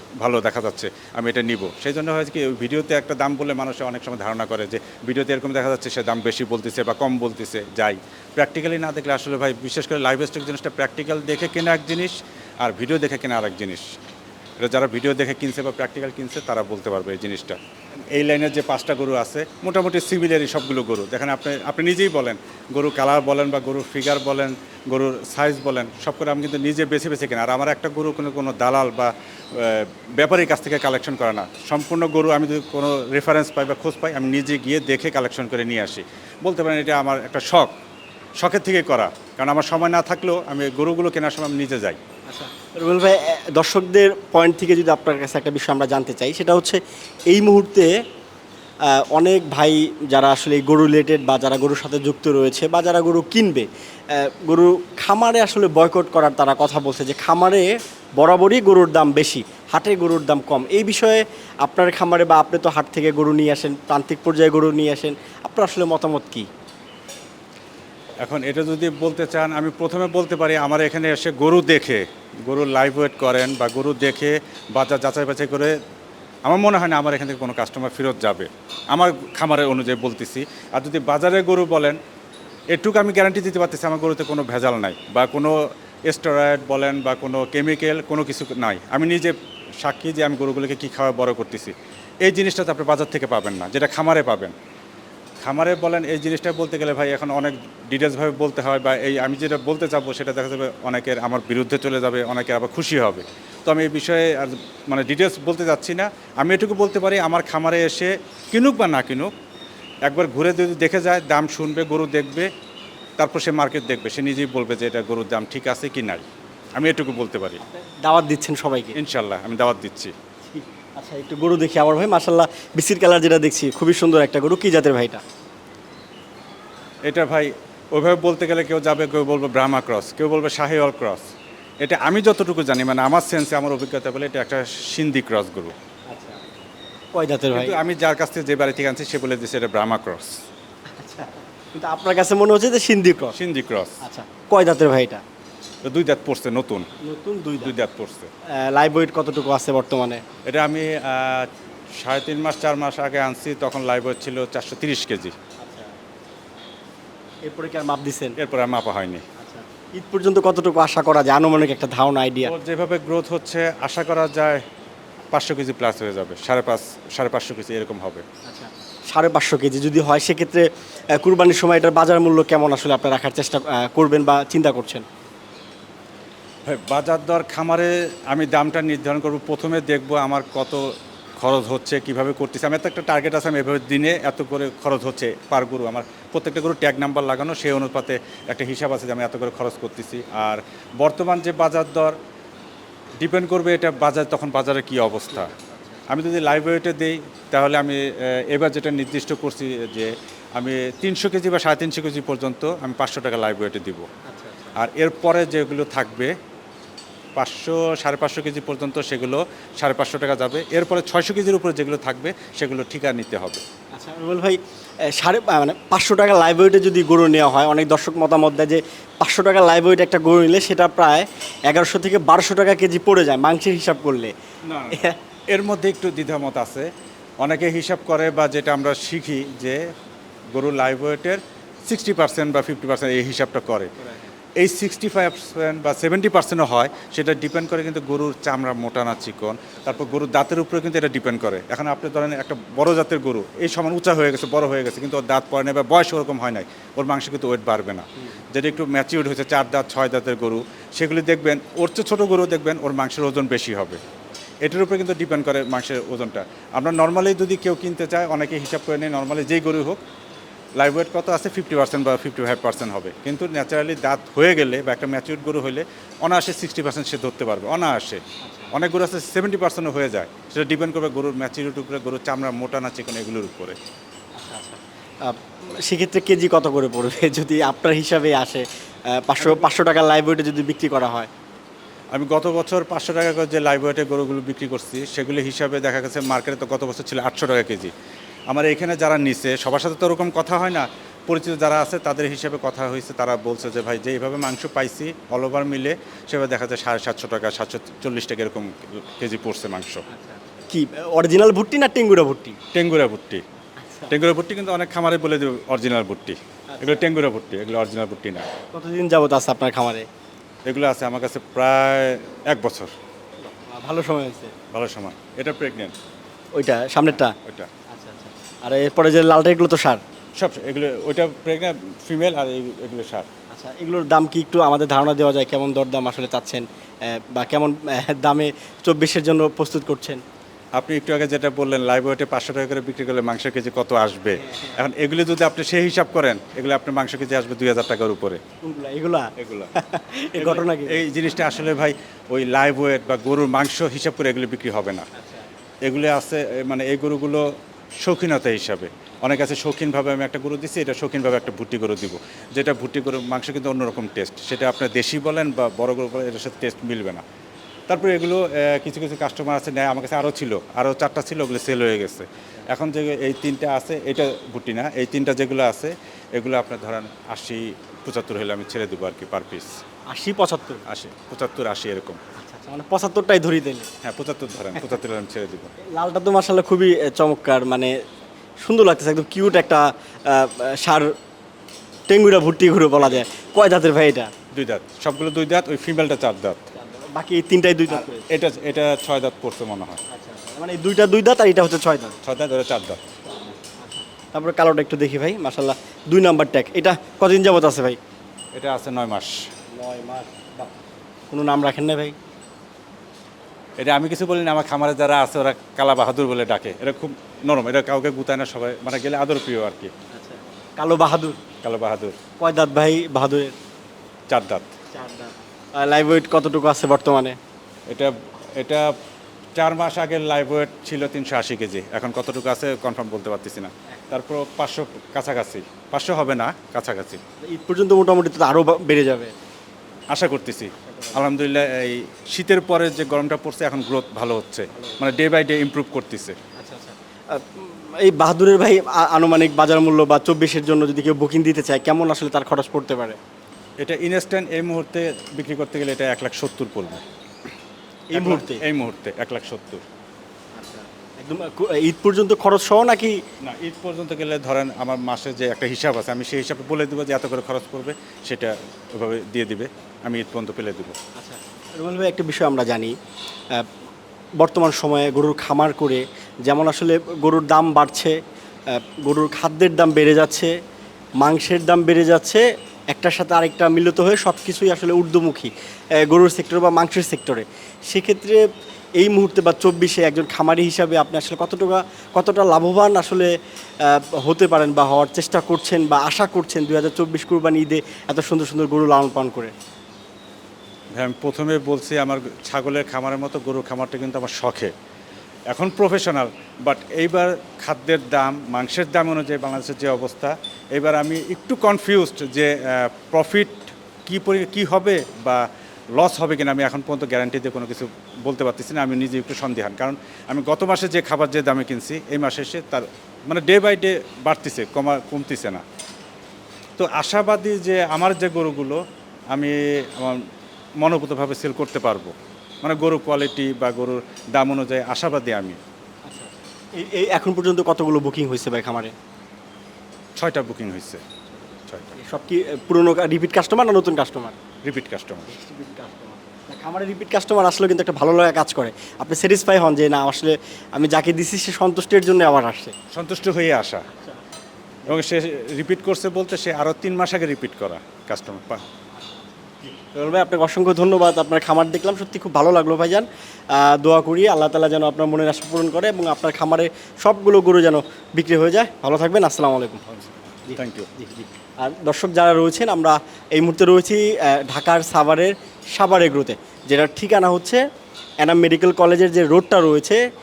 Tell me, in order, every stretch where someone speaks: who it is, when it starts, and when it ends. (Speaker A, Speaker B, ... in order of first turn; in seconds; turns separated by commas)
Speaker A: 0.2-13.9, Speaker A: 14.6-17.6, Speaker A: 18.1-37.7, Speaker A: 38.4-42.0, Speaker B: 42.3-47.9, Speaker B: 48.9-66.5, Speaker A: 68.2-75.8, Speaker A: 76.5-82.0, Speaker A: 82.7-94.5, Speaker A: 95.4-109.3, Speaker A: 110.1-112.5, Speaker A: 113.2-117.6, Speaker B: 117.6-119.0, Speaker A: 119.0-120.1, Speaker B: 120.5-125.2, Speaker A: 127.0-131.3, Speaker A: 131.8-135.8, Speaker B: 136.1-136.6, Speaker B: 137.1-137.8, Speaker A: 137.5-140.4, Speaker B: 140.9-143.3, Speaker A: 143.3-144.0, Speaker B: 144.0-145.2, Speaker A: 145.8-146.9, Speaker B: 147.0-147.8, Speaker A: 147.6-148.3, Speaker B: 148.5-150.2, Speaker A: 150.4-155.4, Speaker B: 155.6-155.9, Speaker B: 157.5-158.4, Speaker A: 158.4-159.2, Speaker B: 159.4-162.5, Speaker A: 162.4-164.6, Speaker A: 165.3-168.2, Speaker B: 168.5-175.1, Speaker A: 176.7-192.2, Speaker A: 193.2-195.5, Speaker B: 195.5-196.1, Speaker A: 196.1-204.1, Speaker B: 204.3-204.8, Speaker A: 204.8-206.3, Speaker A: 207.4-213.6, Speaker B: 213.9-224.3, Speaker A: 224.7-226.9, Speaker B: 224.9-225.2, Speaker A: 227.4-229.8, Speaker A: 230.6-234.0, Speaker B: 234.0-234.3, Speaker A: 234.6-254.0, Speaker B: 239.9-240.1, Speaker A: 254.7-260.0, Speaker A: 260.8-273.8, Speaker B: 268.4-268.7, Speaker B: 274.4-281.3, Speaker A: 282.1-287.9, Speaker A: 288.5-300.1, Speaker B: 300.1-302.6, Speaker A: 302.7-303.4, Speaker B: 303.8-304.1, Speaker A: 304.1-308.5, Speaker B: 306.7-307.1, Speaker B: 308.7-310.1, Speaker A: 310.7-312.9, Speaker B: 313.4-314.5, Speaker A: 314.7-315.9, Speaker B: 316.6-317.4, Speaker A: 317.4-317.7, Speaker B: 317.9-320.0, Speaker A: 320.4-323.3, Speaker B: 323.5-330.2, Speaker A: 330.8-338.4, Speaker B: 338.6-341.0, Speaker A: 339.4-339.7, Speaker A: 340.4-345.1, Speaker B: 345.1-345.5, Speaker A: 345.9-347.4, Speaker A: 348.0-357.2, Speaker A: 357.9-369.7, Speaker B: 370.1-370.8, Speaker A: 370.9-372.2, Speaker B: 372.4-373.9, Speaker A: 374.0-375.7, Speaker B: 375.9-377.9, Speaker B: 378.6-381.1, Speaker B: 382.1-384.3, Speaker A: 384.5-386.7, Speaker B: 386.8-388.3, Speaker A: 387.9-390.0, Speaker B: 390.1-392.2, Speaker A: 392.2-393.2, Speaker B: 393.8-398.0, Speaker A: 398.6-399.4, Speaker B: 399.7-402.1, Speaker A: 403.8-409.9, Speaker B: 410.1-411.4, Speaker A: 411.6-412.2, Speaker B: 412.4-413.6, Speaker A: 414.3-414.7, Speaker B: 414.9-417.4, Speaker A: 417.9-418.9, Speaker A: 419.6-427.2, Speaker B: 427.4-429.3, Speaker A: 430.1-436.4, Speaker B: 430.9-431.2, Speaker B: 436.6-443.2, Speaker A: 443.8-447.1, Speaker B: 448.1-448.6, Speaker A: 448.1-449.9, Speaker B: 450.6-453.2, Speaker A: 453.4-461.0, Speaker B: 461.2-462.9, Speaker B: 464.4-468.2, Speaker B: 468.7-470.5, Speaker B: 471.2-478.4, Speaker B: 479.0-489.5, Speaker A: 490.9-494.7, Speaker A: 495.5-515.6, Speaker A: 516.8-518.8, Speaker A: 519.3-520.2, Speaker A: 520.8-525.6, Speaker B: 526.1-528.9, Speaker A: 530.2-531.0, Speaker A: 531.7-532.0, Speaker B: 532.0-534.4, Speaker A: 534.6-535.3, Speaker B: 535.3-542.8, Speaker A: 542.9-543.9, Speaker B: 543.9-544.2, Speaker A: 544.9-548.6, Speaker B: 549.0-559.9, Speaker B: 560.5-567.6, Speaker A: 560.6-560.9, Speaker B: 568.2-570.0